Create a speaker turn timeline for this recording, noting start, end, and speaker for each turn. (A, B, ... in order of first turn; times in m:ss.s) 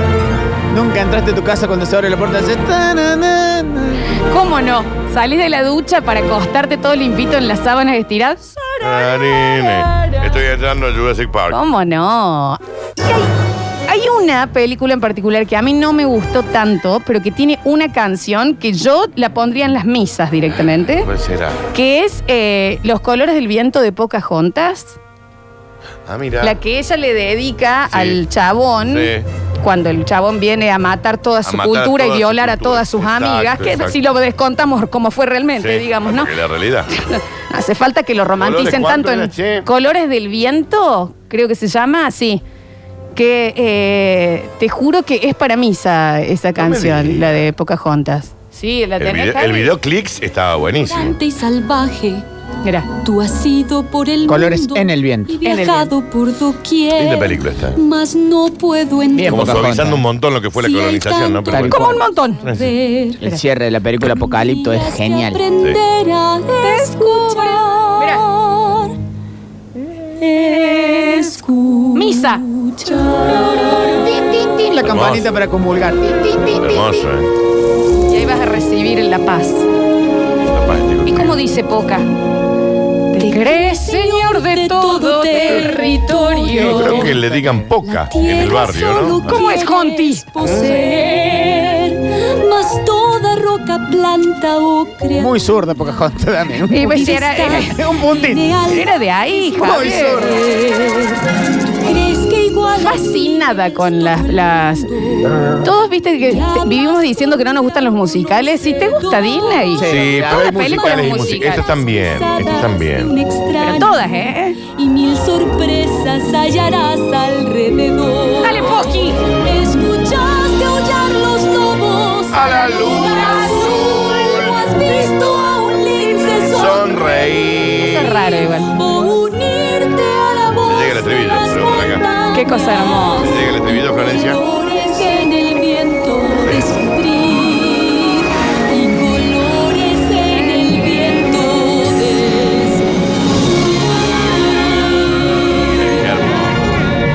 0:00.7-0:04.1 A
0:04.1-0:09.8 B
0:08.8-0:11.6 C
0:11.5-0:13.3 B
0:13.8-0:21.1 B
0:20.6-0:21.6 C
0:21.7-0:25.0 B
0:26.0-0:26.6 C
0:26.4-0:36.4 B
0:27.9-0:28.2 C
0:28.8-0:29.2 C
0:31.4-0:34.0 C
0:35.6-0:36.9 C
0:36.9-0:42.4 B
0:38.4-0:39.7 C
0:43.2-0:49.8 B
0:46.6-0:47.4 C
0:49.0-0:51.2 C
0:50.8-0:52.2 D
0:52.9-0:59.8 D
0:54.3-0:55.3 A
0:55.4-0:55.9 B
0:56.9-0:57.8 C
0:59.1-1:00.0 A
0:59.3-1:02.7 C
1:00.6-1:03.2 D
1:01.5-1:01.9 A
1:01.7-1:02.4 B
1:03.2-1:05.4 A
1:04.0-1:09.0 D
1:06.6-1:08.2 B
1:10.2-1:14.2 D
1:10.7-1:11.3 B
1:11.9-1:12.4 B
1:13.9-1:16.9 A
1:14.8-1:15.3 C
1:16.6-1:17.3 C
1:18.1-1:19.7 B
1:20.5-1:21.4 C
1:21.0-1:22.1 B
1:23.1-1:27.3 D
1:23.1-1:27.2 B
1:26.6-1:29.4 C
1:27.8-1:35.4 D
1:29.2-1:30.7 B
1:35.1-1:38.5 A
1:36.7-1:37.8 B
1:36.7-1:41.2 D
1:38.6-1:40.3 B
1:39.5-1:40.4 A
1:41.8-1:45.4 D
1:42.7-1:44.9 B
1:45.6-1:51.6 B
1:46.2-1:49.9 D
1:49.8-1:50.6 A
1:49.8-1:53.1 C
1:50.6-2:22.8 D
1:53.6-1:54.6 B
1:58.4-1:59.3 B
2:02.3-2:04.7 C
2:03.0-2:03.6 B
2:06.4-2:08.2 C
2:07.8-2:08.7 B
2:10.6-2:12.0 C
2:12.3-2:13.3 B
2:13.2-2:14.4 C
2:25.8-2:26.6 C